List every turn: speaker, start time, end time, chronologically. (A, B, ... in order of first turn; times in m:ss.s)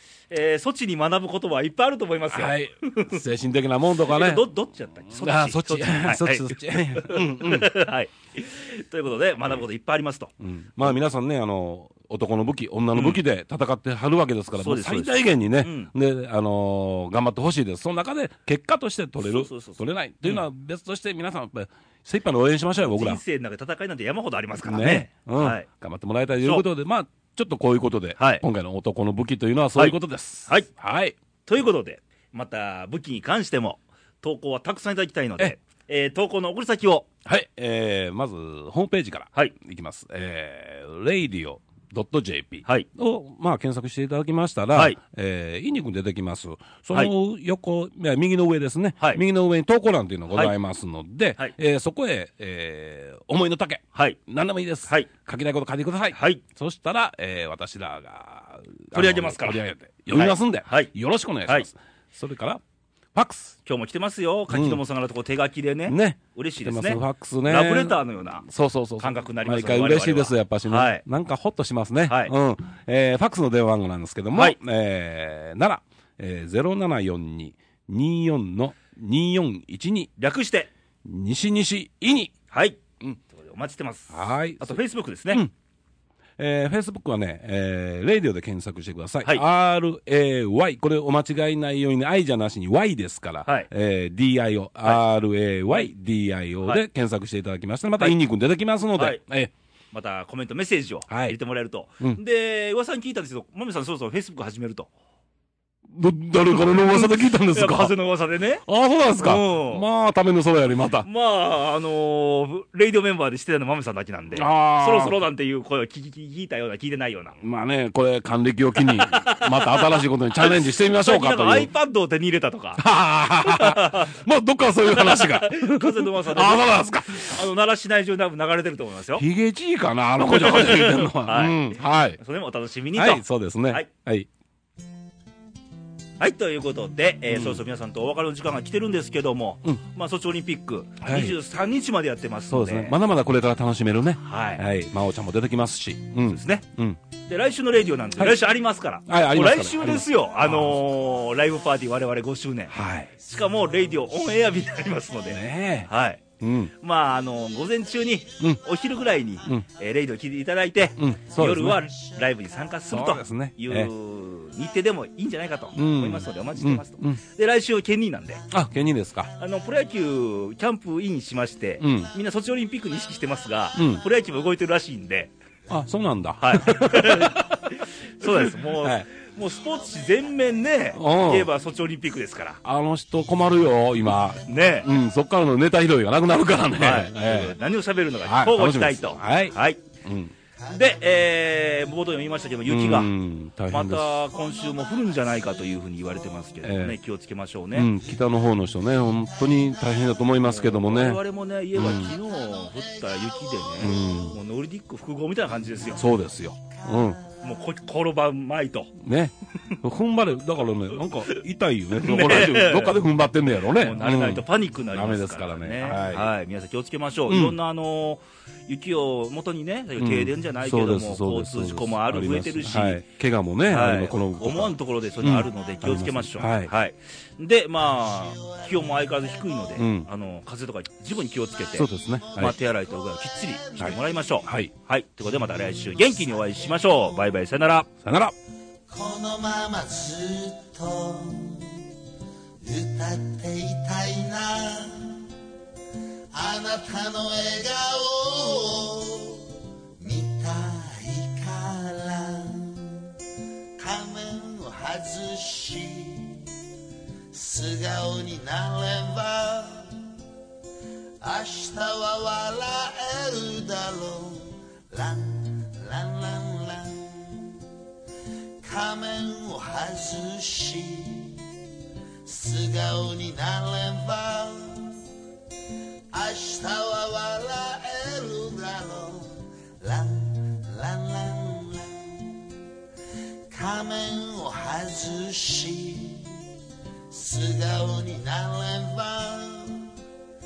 0:00.3-0:03.2 A
0:02.3-0:04.5 B
0:04.0-0:10.9 A
0:05.2-0:07.7 B
0:10.4-0:23.2 B
0:12.9-0:13.2 A
0:14.6-0:15.9 A
0:19.2-0:20.4 A
0:22.8-0:25.7 A
0:24.6-0:31.2 B
0:28.2-0:28.4 A
0:29.8-0:30.7 A
0:31.5-0:37.1 A
0:37.2-1:02.6 B
0:56.1-0:56.4 A
0:58.9-1:00.9 A
1:03.1-1:03.6 B
1:03.6-1:08.5 A
1:04.5-1:04.8 B
1:05.9-1:20.1 B
1:09.0-1:11.0 A
1:12.1-1:12.3 A
1:20.2-1:20.7 A
1:21.0-1:22.3 B
1:22.5-1:25.4 A
1:24.1-1:24.8 B
1:26.4-1:39.5 B
1:39.0-1:39.2 A
1:39.9-1:44.9 A
1:41.1-1:41.4 B
1:45.9-1:47.9 B
1:46.6-1:48.6 A
1:48.6-1:51.1 B
1:49.2-1:49.8 A
1:51.0-1:57.4 A
1:54.3-1:55.2 B
1:57.4-2:01.7 B
1:58.9-2:02.8 A
2:02.8-2:07.4 B
2:03.4-2:04.2 A
2:04.8-2:09.2 A
2:09.1-2:12.2 B
2:10.2-2:13.9 A
2:13.0-2:14.3 B
2:16.2-2:22.9 A
2:17.3-2:17.6 B
2:21.0-2:21.4 B
2:22.5-2:27.0 B
2:24.2-2:24.6 A
2:26.3-2:26.6 A
2:27.3-2:36.2 A
2:29.1-2:30.8 B
2:32.7-2:33.1 B
2:35.3-2:35.9 B
2:36.4-2:36.7 B
2:36.8-2:48.4 A
2:41.0-2:41.9 B
2:41.7-2:41.9 C
2:42.9-2:43.9 B
2:45.8-2:47.2 B
2:48.5-2:49.3 B
2:49.4-2:55.3 A
2:51.8-2:52.1 B
2:53.8-2:54.0 B
2:55.7-2:57.7 B
2:56.4-3:02.6 A
2:58.2-2:59.1 B
3:00.9-3:01.5 B
3:02.6-3:07.6 B
3:04.1-3:04.9 C
3:04.5-3:04.9 A
3:06.8-3:09.8 A
3:08.2-3:10.3 B
3:10.6-3:12.5 C
3:10.7-3:13.1 A
3:12.7-3:14.2 B
3:13.7-3:17.9 A
3:14.3-3:16.5 C
3:16.6-3:17.0 B
3:17.7-3:21.2 B
3:18.0-3:20.3 C
3:20.4-3:26.0 A
3:21.8-3:22.2 B
3:21.8-3:24.4 C
3:23.8-3:24.4 B
3:25.8-3:27.5 C
3:25.9-3:27.2 B
3:27.4-3:28.9 A
3:29.0-3:36.3 B
3:31.9-3:33.0 A
3:33.7-3:43.0 A
3:37.3-3:37.6 B
3:40.0-3:46.7 B
3:43.7-3:57.9 A
3:47.8-3:49.8 C
3:49.8-3:50.1 B
3:51.3-3:54.5 C
3:51.7-3:52.6 B
3:53.8-3:54.7 B
3:55.5-3:57.3 C
3:58.0-3:58.4 B
3:58.9-4:01.8 C
4:02.6-4:05.3 C
4:06.3-4:13.1 C
4:13.8-4:16.5 C
4:17.3-4:20.1 C
4:21.2-4:27.6 C
4:28.6-4:31.4 C
4:32.2-4:35.0 C
4:36.1-4:42.5 C
4:43.5-4:46.4 C
4:47.1-4:49.9 C